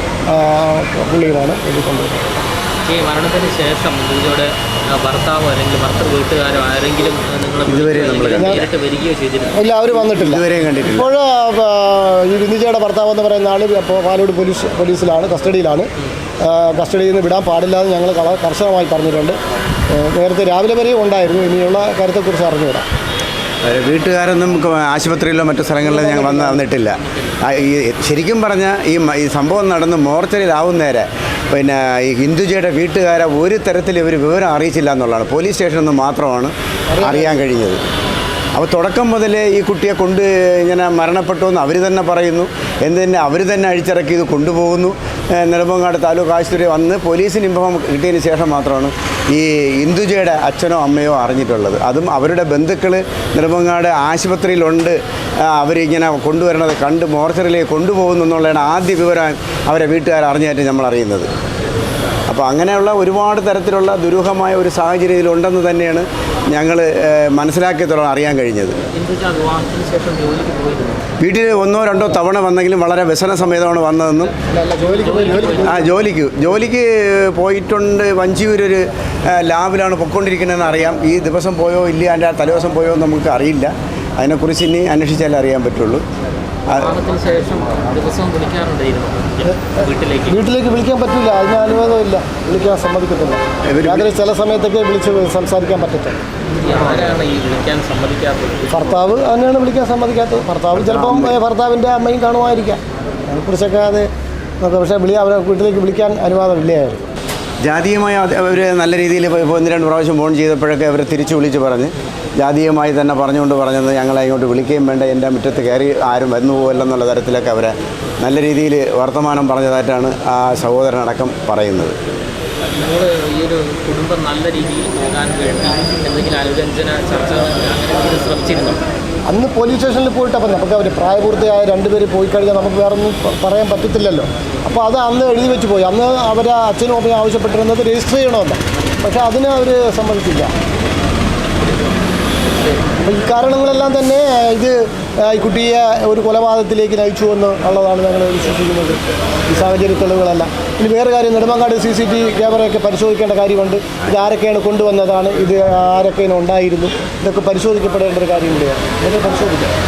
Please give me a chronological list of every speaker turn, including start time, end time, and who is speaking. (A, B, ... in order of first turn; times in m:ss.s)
0:00.3-0:02.4 A
0:02.8-0:09.6 B
0:07.7-0:08.6 C
0:08.4-0:08.6 A
0:09.5-0:15.9 A
0:09.9-0:11.1 C
0:16.4-0:19.4 A
0:19.9-0:22.8 A
0:23.6-0:37.8 C
0:25.8-0:26.6 A
0:26.9-0:27.4 B
0:36.9-0:37.4 A
0:38.5-0:55.0 C
0:55.5-1:01.3 C
1:02.3-1:08.8 C
1:08.9-1:11.0 B
1:11.2-1:14.3 C
1:14.5-1:16.0 A
1:14.8-1:15.8 B
1:15.6-1:26.0 C
1:26.7-1:27.0 C
1:26.7-1:30.4 B
1:29.4-1:36.2 A
1:33.7-1:34.1 C
1:36.5-1:39.0 B
1:38.7-1:44.1 A
1:40.7-1:41.4 C
1:44.6-1:47.0 A
1:47.6-2:02.0 C
2:02.7-2:08.8 B
2:09.3-2:20.5 A
2:23.0-2:39.7 A